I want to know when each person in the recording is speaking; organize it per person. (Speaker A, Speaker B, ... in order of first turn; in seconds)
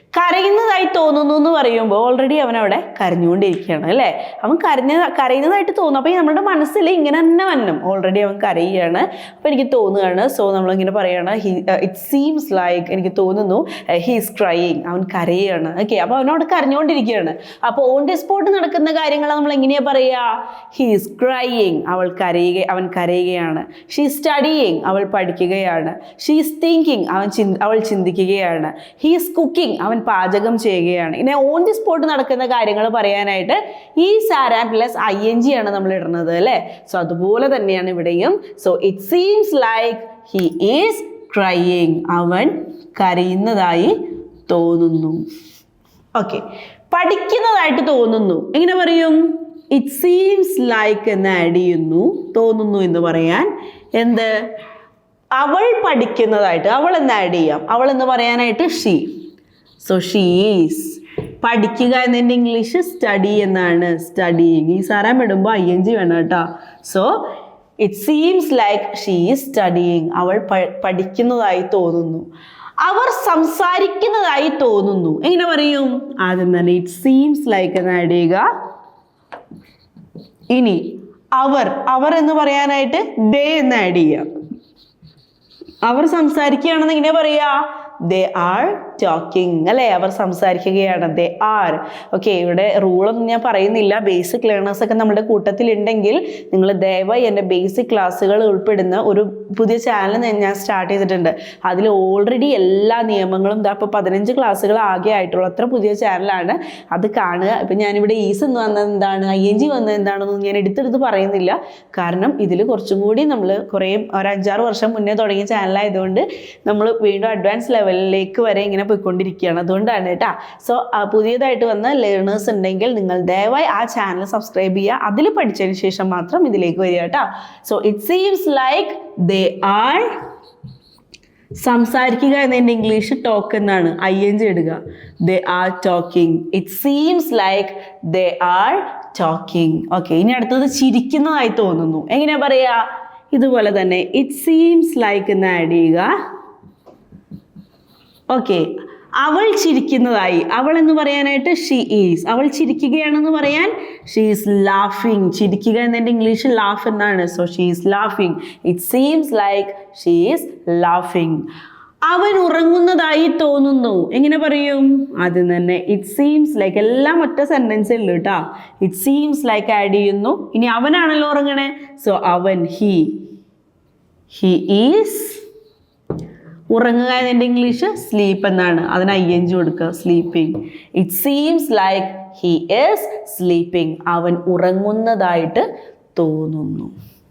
Speaker A: 0.1-44.0, 44.5-45.2, 46.1-54.3, 55.4-59.1, 59.8-67.2, 67.8-72.3, 72.8-78.5, 80.5-84.3, 85.8-130.1, 131.6-146.1, 148.3-161.5, 162.1-173.2, 174.3-175.4, 176.7-186.9